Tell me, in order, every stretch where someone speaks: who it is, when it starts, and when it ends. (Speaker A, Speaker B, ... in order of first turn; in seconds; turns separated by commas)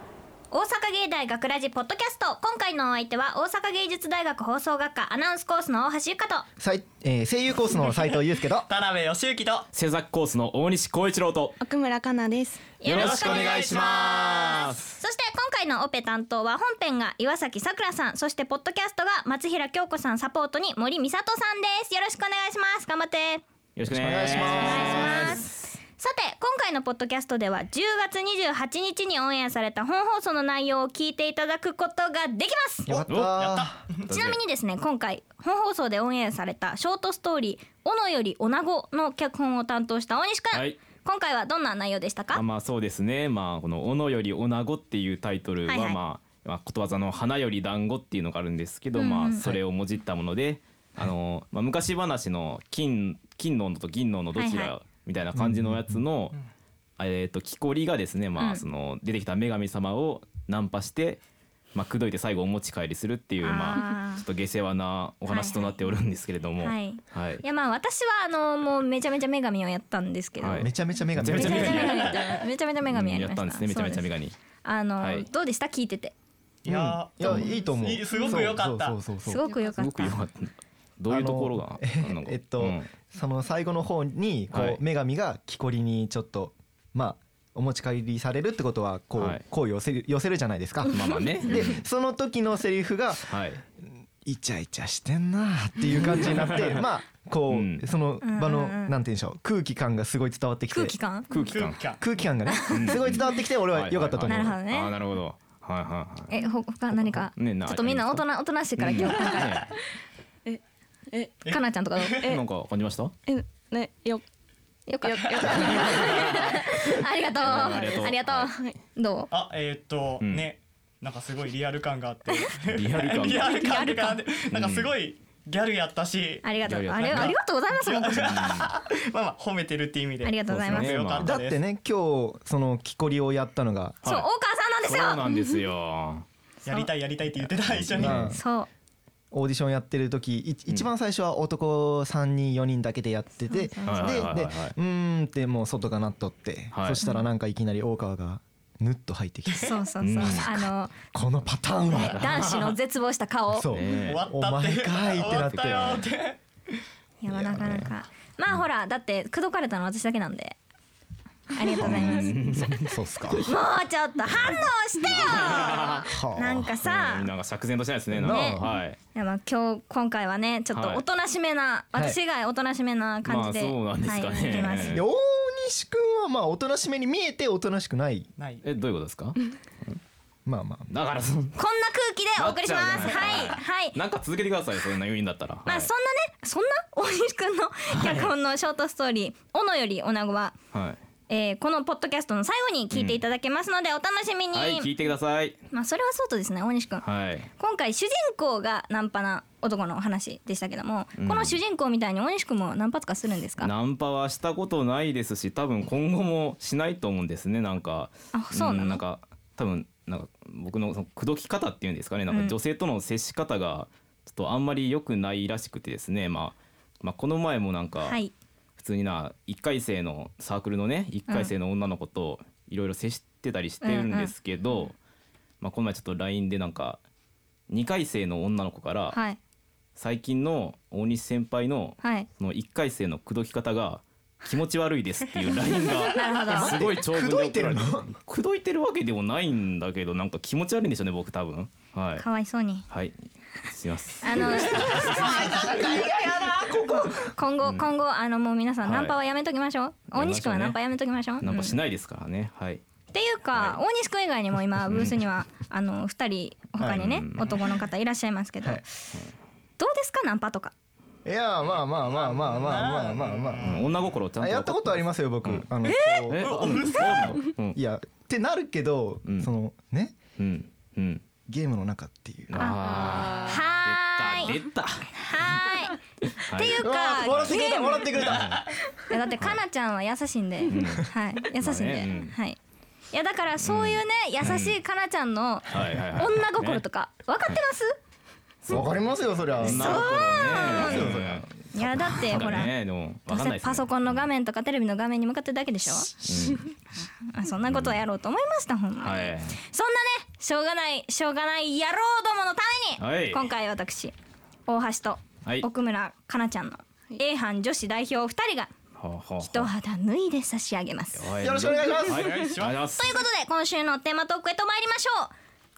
Speaker A: 0.5-6.5, Speaker B: 6.6-8.7, Speaker C: 7.8-9.7, Speaker D: 9.7-11.6, Speaker E: 11.6-12.7, Speaker A: 12.8-23.4, Speaker D: 12.8-15.0, Speaker C: 12.9-14.6, Speaker D: 23.8-25.7, Speaker B: 23.9-25.4, Speaker A: 24.3-32.9, Speaker B: 32.9-33.8, Speaker D: 33.1-33.4, Speaker C: 33.3-34.1, Speaker D: 34.1-34.4, Speaker A: 34.1-42.4, Speaker D: 40.5-40.8, Speaker D: 42.3-56.4, Speaker A: 45.7-46.0, Speaker A: 49.0-49.5, Speaker A: 54.3-54.7, Speaker B: 55.4-56.0, Speaker D: 57.0-61.2, Speaker A: 58.4-58.6, Speaker D: 61.7-67.4, Speaker A: 63.4-64.2, Speaker A: 65.3-65.8, Speaker A: 66.6-70.7, Speaker D: 70.4-74.3, Speaker B: 70.5-71.9, Speaker A: 71.3-74.1, Speaker C: 71.5-72.2, Speaker A: 74.6-76.2, Speaker D: 75.0-75.3, Speaker B: 76.7-79.4, Speaker C: 76.7-79.0, Speaker A: 79.2-80.2, Speaker D: 79.6-82.9, Speaker B: 81.1-101.0, Speaker D: 84.5-84.8, Speaker D: 89.2-89.4, Speaker D: 90.8-91.8, Speaker D: 93.3-93.6, Speaker D: 96.0-96.8, Speaker D: 97.5-97.8, Speaker A: 98.2-98.9, Speaker A: 100.7-101.3, Speaker D: 101.3-101.8, Speaker C: 101.3-102.0, Speaker B: 102.0-104.5, Speaker A: 102.5-103.0, Speaker D: 102.7-109.7, Speaker A: 104.2-104.9, Speaker A: 106.3-109.7, Speaker E: 110.4-111.3, Speaker C: 111.4-112.2, Speaker A: 111.5-112.2, Speaker D: 112.2-113.2, Speaker E: 113.3-114.2, Speaker A: 114.9-119.3, Speaker E: 115.0-115.9, Speaker C: 115.2-116.4, Speaker D: 116.1-116.6, Speaker D: 117.4-118.5, Speaker E: 117.5-118.8, Speaker C: 119.3-131.6, Speaker D: 120.2-120.5, Speaker D: 122.7-124.9, Speaker A: 123.3-124.2, Speaker A: 126.4-128.2, Speaker D: 126.6-127.4, Speaker D: 128.1-128.7, Speaker A: 130.2-130.9, Speaker D: 130.5-131.3, Speaker B: 131.2-134.0, Speaker D: 134.0-134.3, Speaker A: 134.0-135.2, Speaker D: 134.8-136.2, Speaker C: 136.6-138.2, Speaker D: 137.3-138.3, Speaker B: 137.9-138.4, Speaker A: 138.3-138.7, Speaker B: 139.3-152.3, Speaker A: 143.4-144.3, Speaker D: 143.8-144.8, Speaker D: 146.7-147.0, Speaker A: 149.6-150.9, Speaker D: 150.0-150.5, Speaker A: 151.9-153.7, Speaker D: 152.0-152.8, Speaker B: 153.5-156.0, Speaker D: 153.7-154.3, Speaker C: 154.0-156.4, Speaker D: 155.3-156.1, Speaker A: 157.2-160.6, Speaker B: 157.3-157.9, Speaker A: 161.5-162.4, Speaker D: 161.8-163.5, Speaker B: 162.9-163.5, Speaker A: 163.4-167.3, Speaker D: 164.5-169.0, Speaker B: 166.1-166.7, Speaker B: 168.1-168.7, Speaker A: 168.2-175.0, Speaker D: 170.7-171.0, Speaker D: 173.2-175.0, Speaker B: 174.8-178.3, Speaker C: 178.4-178.6, Speaker D: 178.6-180.0, Speaker B: 180.4-180.9, Speaker D: 180.9-181.6, Speaker A: 181.6-184.0, Speaker D: 182.3-185.9, Speaker A: 185.7-190.6, Speaker D: 187.9-188.3, Speaker D: 190.7-191.0, Speaker A: 191.3-194.9, Speaker D: 192.9-193.2, Speaker D: 194.5-195.6, Speaker A: 195.7-197.0, Speaker D: 197.0-197.5, Speaker A: 197.6-203.7, Speaker D: 201.2-201.6, Speaker D: 203.6-218.2, Speaker A: 208.3-209.0, Speaker A: 212.3-212.6, Speaker A: 218.0-218.3, Speaker D: 218.8-224.9, Speaker A: 223.8-224.3, Speaker D: 225.6-227.0, Speaker D: 227.7-229.2, Speaker A: 229.1-229.4, Speaker D: 229.9-242.2, Speaker A: 232.0-232.3, Speaker A: 236.0-236.8, Speaker B: 236.5-238.2, Speaker A: 242.2-242.9, Speaker D: 242.9-243.2, Speaker D: 243.7-247.0, Speaker A: 244.2-245.7, Speaker B: 244.4-247.3, Speaker A: 247.2-251.7, Speaker D: 247.6-247.9, Speaker D: 248.8-249.2, Speaker D: 250.1-250.8, Speaker D: 251.4-252.8, Speaker A: 253.1-258.8, Speaker D: 253.5-253.8, Speaker B: 256.8-257.1, Speaker D: 256.8-257.6, Speaker A: 259.8-260.7, Speaker B: 261.2-263.8, Speaker C: 262.0-264.0, Speaker D: 263.6-265.7, Speaker B: 264.4-270.2, Speaker C: 266.1-267.4, Speaker D: 266.3-267.8, Speaker D: 269.2-269.5, Speaker D: 270.4-271.2, Speaker B: 271.5-272.7, Speaker D: 272.5-275.5, Speaker A: 272.6-274.6, Speaker E: 272.8-273.6, Speaker A: 275.1-275.9, Speaker D: 276.3-278.6, Speaker A: 276.5-278.4, Speaker B: 276.8-278.6, Speaker A: 279.1-282.6, Speaker D: 279.4-279.6, Speaker D: 280.7-282.3, Speaker A: 283.1-287.9, Speaker D: 283.6-284.8, Speaker D: 285.7-286.8, Speaker D: 288.6-294.2, Speaker B: 288.7-291.5, Speaker A: 289.6-292.7, Speaker A: 293.3-296.6, Speaker D: 296.2-296.6, Speaker A: 297.2-304.1, Speaker D: 297.7-298.0, Speaker D: 299.0-299.6, Speaker D: 303.0-303.5, Speaker A: 304.7-308.7, Speaker D: 309.0-309.7, Speaker A: 309.4-311.3, Speaker D: 311.1-313.2, Speaker B: 311.4-312.3, Speaker C: 312.0-312.8, Speaker A: 312.9-315.3